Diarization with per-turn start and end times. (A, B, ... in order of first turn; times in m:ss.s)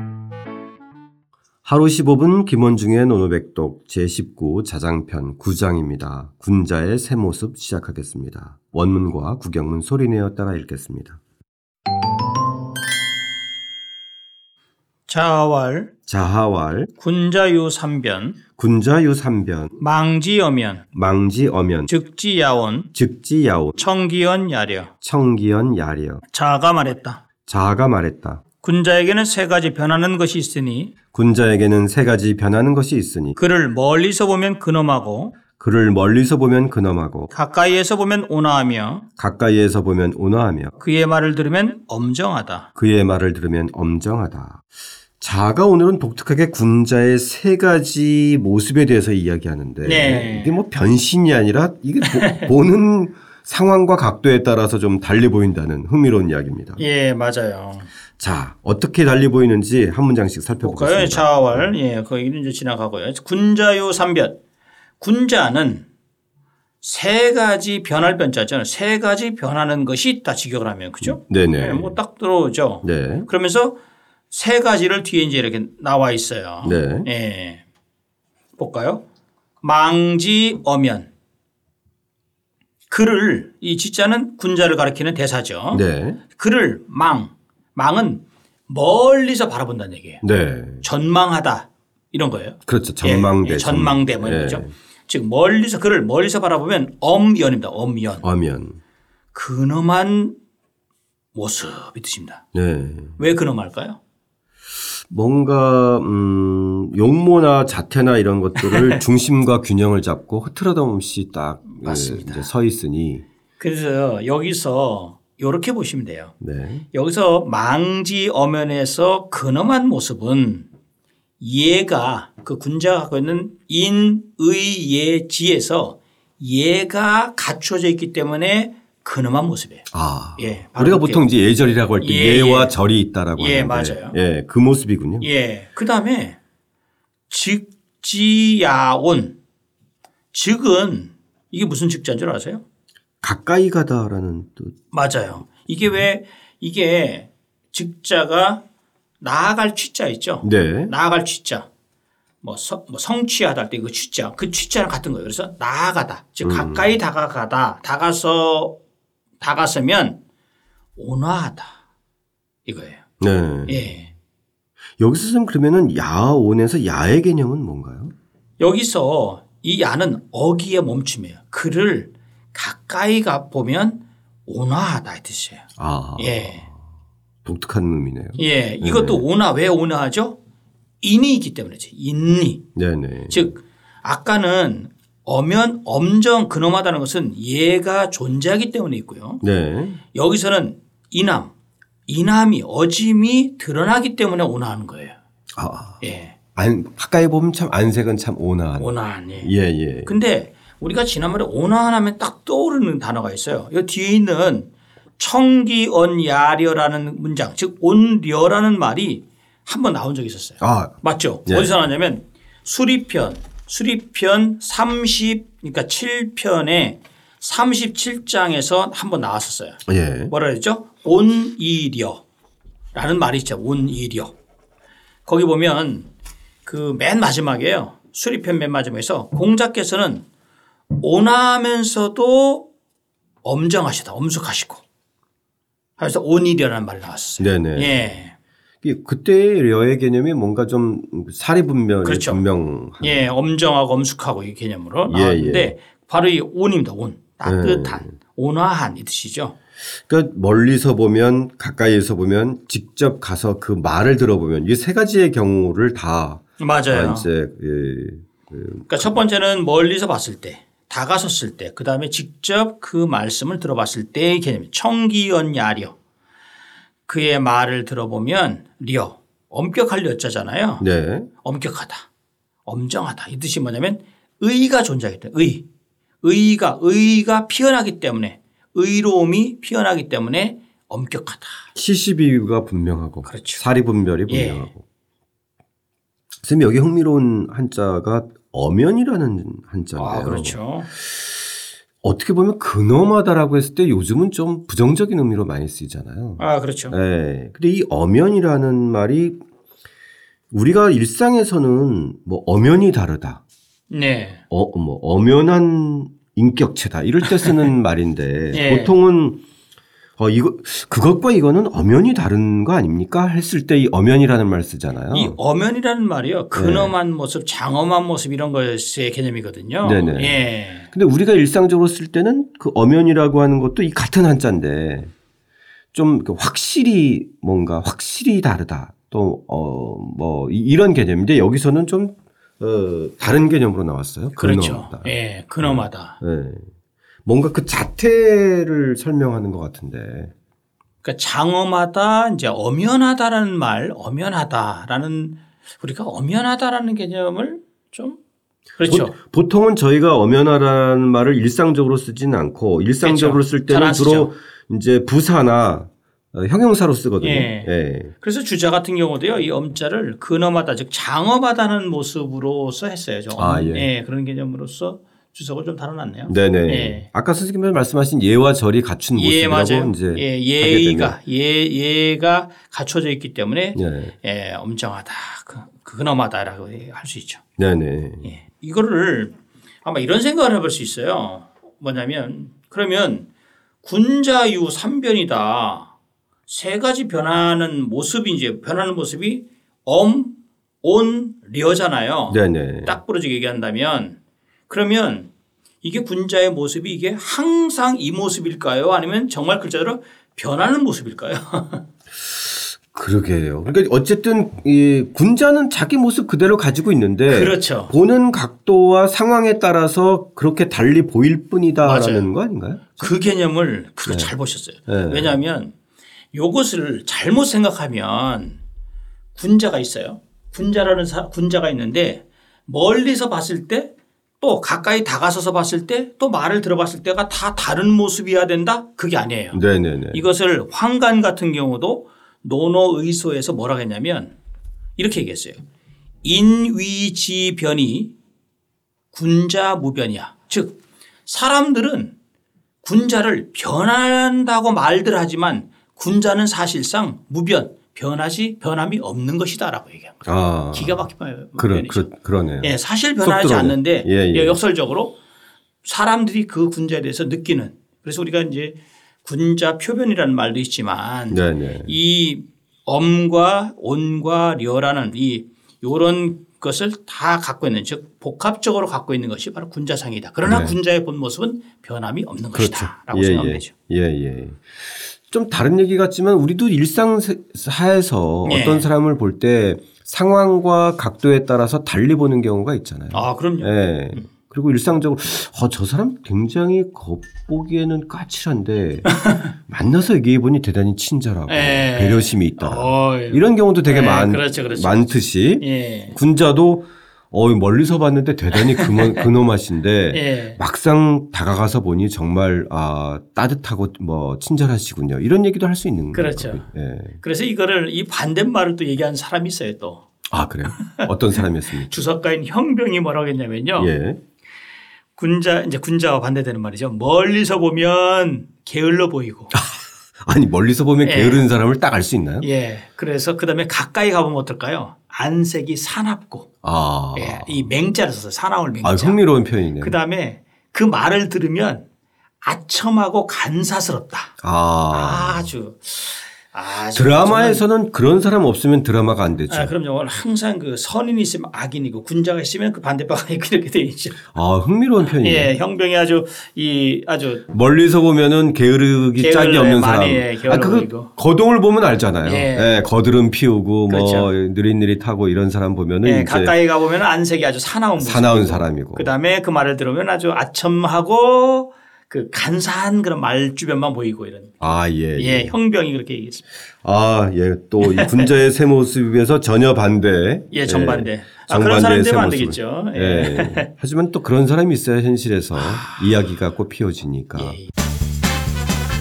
0:01.6-0:11.2 A
0:15.1-0:15.9 B
0:16.0-0:16.9 A
0:17.0-0:18.4 B
0:18.5-0:19.8 A
0:19.8-0:20.8 B
0:20.9-0:21.9 A
0:21.9-0:22.9 B
0:22.9-0:23.7 A
0:23.8-0:24.9 B
0:25.0-0:26.2 A
0:26.3-0:27.2 B
0:27.4-0:28.4 A
0:28.6-0:30.9 B
0:31.1-0:33.4 A
0:33.4-0:35.4 B
0:35.5-0:37.3 A
0:37.3-0:39.0 B
0:39.2-0:40.7 A
0:40.8-0:42.7 B
0:42.8-0:44.6 A
0:45.2-0:56.8 A
0:49.8-0:50.6 B
0:52.1-0:52.5 B
0:56.8-0:57.9 B
0:58.2-1:01.7 A
1:00.6-1:04.4 B
1:05.0-1:05.8 B
1:06.8-1:13.8 B
1:11.0-1:12.0 A
1:12.8-1:13.3 A
1:14.3-1:17.6 B
1:16.6-1:17.1 A
1:18.6-1:19.0 B
1:19.6-1:21.1 B
1:22.9-1:30.2 B
1:25.7-1:26.2 A
1:30.2-1:30.8 A
1:30.8-1:38.2 B
1:32.6-1:34.7 A
1:38.2-1:38.8 A
1:39.3-1:40.3 B
1:41.3-1:42.4 B
1:42.5-1:43.2 A
1:43.2-1:44.0 B
1:45.1-1:53.2 A
1:48.6-1:49.0 B
1:51.8-1:52.5 B
1:53.6-1:56.3 B
1:56.4-1:56.8 A
1:56.9-2:00.7 B
2:01.4-2:11.2 B
2:09.9-2:15.3 A
2:12.0-2:12.7 B
2:13.4-2:14.2 B
2:15.2-2:16.4 B
2:17.3-2:19.3 B
2:20.3-2:22.6 B
2:23.2-2:24.7 A
2:24.9-2:28.6 B
2:29.2-2:31.7 B
2:30.4-2:30.9 A
2:32.4-2:38.7 B
2:36.4-2:37.0 A
2:39.4-2:40.2 B
2:41.0-2:41.8 B
2:42.6-2:43.0 B
2:43.2-2:43.9 A
2:43.6-2:44.1 B
2:45.0-2:48.1 A
2:48.6-2:55.6 B
2:55.8-2:56.7 A
2:56.2-2:56.6 B
2:57.4-2:59.2 A
2:58.4-3:00.4 B
3:01.0-3:02.6 B
3:02.7-3:03.5 A
3:03.3-3:09.4 B
3:09.4-3:10.0 A
3:10.1-3:11.5 B
3:12.1-3:15.1 B
3:15.6-3:16.0 A
3:16.0-3:16.4 B
3:16.5-3:20.1 A
3:18.8-3:19.5 B
3:20.0-3:24.7 B
3:25.2-3:39.8 B
3:30.6-3:30.9 A
3:31.4-3:31.7 A
3:39.9-3:40.3 A
3:40.3-3:42.2 B
3:42.9-3:44.3 B
3:45.2-3:46.1 B
3:46.6-3:50.2 B
3:51.0-3:52.7 B
3:53.4-3:54.8 B
3:56.0-3:58.3 B
3:57.4-3:58.1 A
3:58.8-4:03.3 A
4:02.0-4:02.4 B
4:03.0-4:09.5 B
4:05.1-4:05.8 A
4:07.4-4:08.1 A
4:09.9-4:19.2 A
4:16.6-4:17.3 B
4:18.9-4:25.9 B
4:27.1-4:30.8 B
4:30.8-4:31.3 A
4:31.4-4:32.0 B
4:32.6-4:35.6 B
4:36.2-4:41.6 B
4:41.7-4:44.8 A
4:43.2-4:43.6 B
4:44.3-4:44.7 B
4:46.4-4:50.6 A
4:50.0-4:50.9 B
4:52.0-4:59.3 A
4:56.4-4:57.0 B
5:00.5-5:03.4 A
5:03.9-5:04.4 B
5:04.5-5:09.4 A
5:08.5-5:09.0 B
5:10.2-5:15.4 A
5:15.1-5:20.9 B
5:16.5-5:16.9 A
5:19.8-5:25.1 A
5:25.9-5:36.7 A
5:34.4-5:36.2 B
5:37.2-5:40.3 A
5:41.0-5:48.2 B
5:48.8-5:49.1 B
5:48.9-5:58.1 A
5:53.0-5:54.3 B
5:57.2-5:57.7 B
5:58.2-6:07.1 B
6:03.4-6:03.9 A
6:06.3-6:11.2 A
6:09.1-6:17.4 B
6:13.7-6:14.1 A
6:17.6-6:18.3 A
6:18.2-6:23.2 B
6:23.8-6:25.9 B
6:26.5-6:34.2 B
6:32.3-6:33.0 A
6:34.7-6:35.3 B
6:35.8-6:41.8 B
6:42.3-6:53.1 A
6:47.3-6:47.9 B
6:51.8-6:52.3 B
6:53.0-6:55.7 B
6:54.1-6:54.3 A
6:54.9-6:55.4 A
6:56.3-6:58.6 B
6:59.4-7:14.3 B
7:09.5-7:10.2 A
7:15.0-7:15.6 B
7:16.2-7:18.1 B
7:19.1-7:22.1 B
7:22.8-7:32.1 B
7:30.2-7:34.6 A
7:32.6-7:35.2 B
7:35.8-7:53.7 B
7:41.3-7:41.9 A
7:50.4-7:50.8 A
7:52.5-8:27.2 A
7:58.4-7:58.9 B
8:03.1-8:03.7 B
8:09.0-8:09.5 B
8:11.5-8:16.2 B
8:18.6-8:19.2 B
8:20.1-8:20.6 B
8:26.1-8:26.6 B
8:27.2-8:30.0 B
8:30.3-8:32.0 A
8:30.6-8:33.9 B
8:33.8-8:34.2 A
8:35.2-8:39.5 B
8:39.5-8:42.5 A
8:41.0-8:41.4 B
8:42.4-8:46.5 B
8:46.6-8:47.6 A
8:47.1-8:49.2 B
8:48.8-8:50.0 A
8:49.8-8:51.8 B
8:52.4-8:54.3 B
8:54.4-8:55.5 A
8:54.9-8:57.6 B
8:56.9-8:59.7 A
8:59.5-9:04.3 B
9:04.3-9:05.5 A
9:05.2-9:07.4 B
9:07.5-9:16.5 A
9:09.2-9:11.1 B
9:12.2-9:12.8 B
9:13.9-9:14.3 B
9:16.0-9:24.6 B
9:18.0-9:19.1 A
9:24.6-9:25.5 A
9:25.1-9:26.4 B
9:26.8-9:37.6 A
9:27.8-9:28.3 B
9:30.5-9:33.7 B
9:35.6-9:35.9 B
9:37.4-9:37.6 B